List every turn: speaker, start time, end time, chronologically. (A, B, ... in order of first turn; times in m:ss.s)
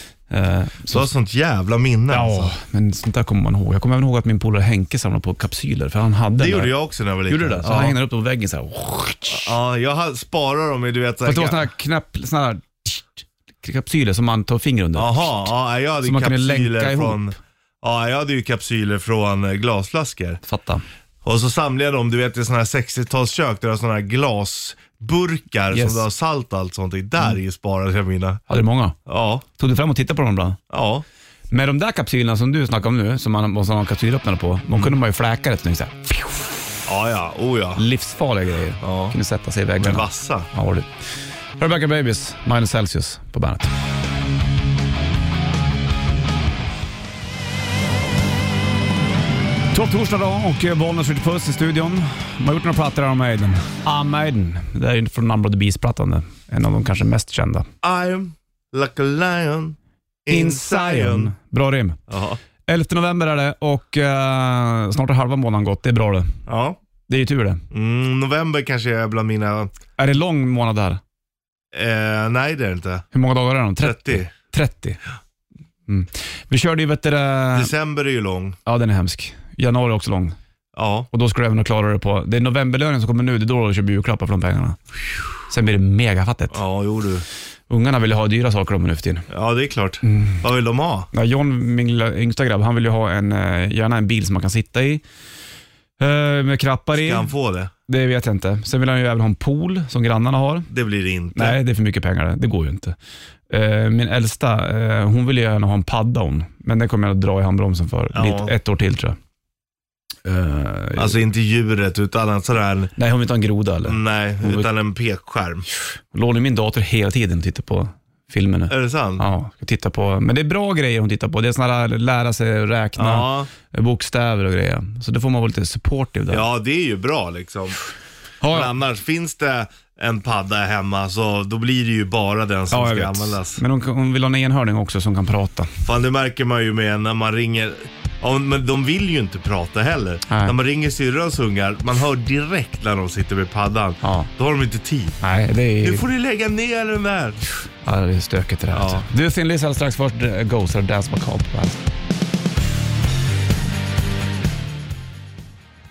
0:00.3-0:01.1 A
0:00.9-0:02.5 B
0:02.1-0:06.7 A
0:06.4-0:08.0 B
0:07.3-0:09.5 A
0:09.3-0:11.7 B
0:11.2-0:15.4 A
0:14.9-0:20.4 B
0:16.0-0:17.3 A
0:20.4-0:20.8 A
0:21.2-0:28.4 B
0:25.7-0:26.0 A
0:28.5-0:29.0 A
0:29.1-0:29.4 B
0:29.6-0:30.6 A
0:30.7-0:31.0 B
0:31.5-0:36.5 A
0:36.9-0:37.8 B
0:37.8-0:41.1 A
0:38.8-0:39.1 B
0:39.8-0:40.5 B
0:41.6-0:43.7 A
0:49.7-0:57.7 A
0:57.8-1:01.3 B
1:00.3-1:02.0 A
1:02.1-1:02.4 B
1:02.7-1:06.4 A
1:06.5-1:06.8 B
1:07.1-1:07.6 A
1:07.7-1:09.7 B
1:10.0-1:11.0 A
1:11.7-1:13.1 B
1:13.1-1:15.0 A
1:13.8-1:14.3 B
1:15.9-1:17.7 A
1:17.5-1:18.6 B
1:18.6-1:20.4 A
1:20.7-1:21.1 B
1:21.1-1:24.8 A
1:25.4-1:26.6 A
1:26.5-1:27.2 B
1:27.7-1:29.3 A
1:29.3-1:31.1 B
1:30.0-1:30.4 A
1:31.1-1:35.0 A
1:36.0-1:37.3 A
1:36.9-1:37.7 B
1:37.9-1:40.7 A
1:40.7-1:41.6 B
1:41.3-1:43.0 A
1:43.5-1:49.2 A
1:48.1-1:48.5 B
1:50.2-1:51.2 A
1:51.0-1:52.9 B
1:53.0-1:54.7 A
1:53.8-1:55.6 B
1:56.1-2:06.5 A
1:58.7-1:59.2 B
2:03.0-2:03.5 B
2:06.3-2:07.8 B
2:08.4-2:08.7 A
2:08.5-2:13.6 B
2:12.7-2:15.7 A
2:15.8-2:25.2 B
2:20.3-2:20.5 A
2:24.0-2:24.3 A
2:25.2-2:26.0 A
2:25.8-2:27.4 B
2:27.8-2:31.8 A
2:28.7-2:29.0 B